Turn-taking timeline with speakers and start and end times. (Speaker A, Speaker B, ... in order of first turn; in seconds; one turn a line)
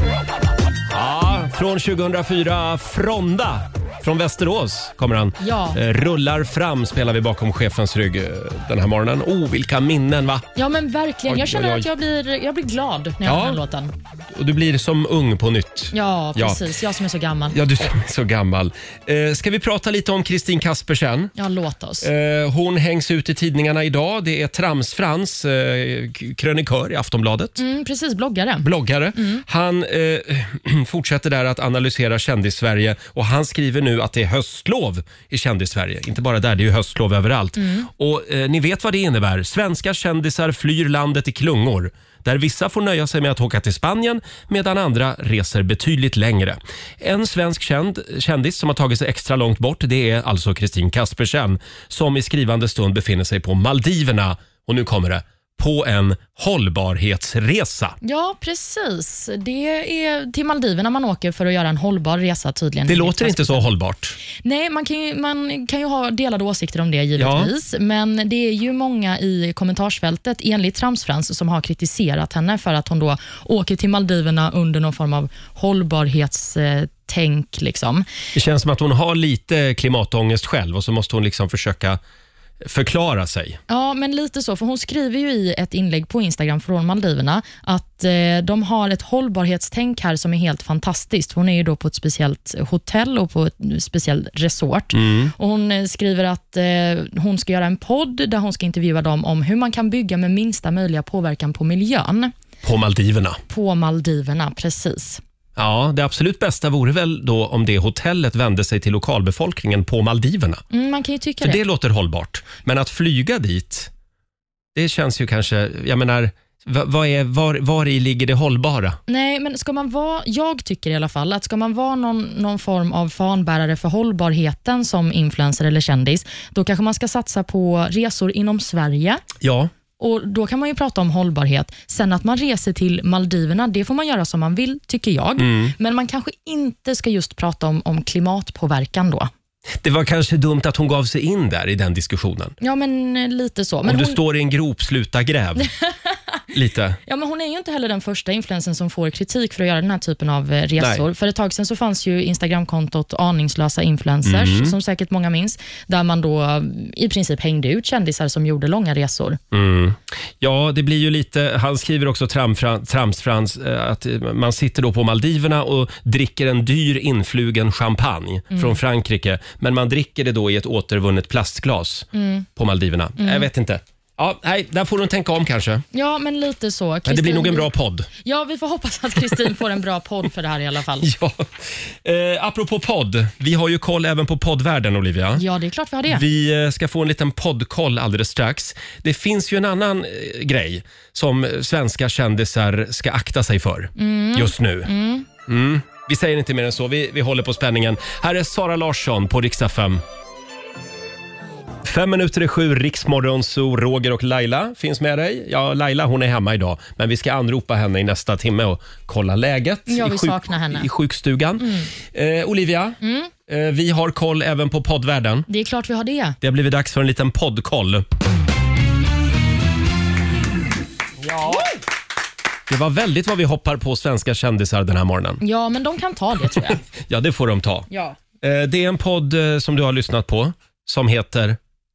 Speaker A: 0.9-10.5
Speaker B: 5.4-5.8
Speaker B: 10.6-13.9
Speaker A: 11.3-11.9
Speaker A: 13.2-13.6
Speaker A: 14.3-16.6
Speaker B: 15.9-17.6
Speaker A: 17.5-21.3
Speaker B: 21.4-22.1
Speaker A: 22.0-27.6
Speaker B: 27.6-29.4
Speaker A: 28.6-58.0
Speaker B: 37.6-37.9
Speaker B: 58.0-63.7
Speaker A: 62.9-64.2
Speaker B: 64.4-78.1
Speaker A: 67.2-67.5
Speaker A: 78.3-82.0
Speaker A: 82.7-83.6
Speaker B: 83.7-102.3
Speaker A: 94.9-95.3
Speaker A: 102.6-103.4
Speaker B: 103.5-105.2
Speaker A: 105.6-110.6
Speaker B: 110.7-111.6
Speaker A: 111.4-113.9
Speaker A: 114.8-119.0
Speaker B: 119.1-129.2
Speaker A: 129.4-129.7
Speaker B: 130.0-139.3
Speaker A: 135.4-135.8
Speaker A: 139.8-142.6
Speaker B: 142.6-144.2
Speaker A: 143.8-145.7
Speaker A: 146.5-147.0
Speaker B: 147.1-159.4
Speaker A: 150.8-151.0
Speaker A: 154.2-154.8
Speaker A: 159.5-175.8
Speaker B: 168.5-168.8
Speaker B: 172.1-172.5
Speaker B: 173.2-173.5
Speaker B: 175.9-177.7
Speaker A: 177.1-178.1
Speaker B: 178.2-181.1
Speaker A: 181.0-185.4
Speaker B: 185.4-186.2
Speaker A: 186.1-194.9
Speaker B: 194.0-195.3
Speaker A: 195.5-200.0
Speaker A: 201.8-215.5
Speaker B: 209.9-210.9
Speaker B: 211.6-211.9
Speaker B: 213.0-213.3
Speaker B: 215.5-216.4
Speaker A: 216.4-218.1
Speaker A: 222.7-225.4
Speaker B: 225.4-226.8
Speaker A: 226.7-227.9
Speaker A: 228.4-231.6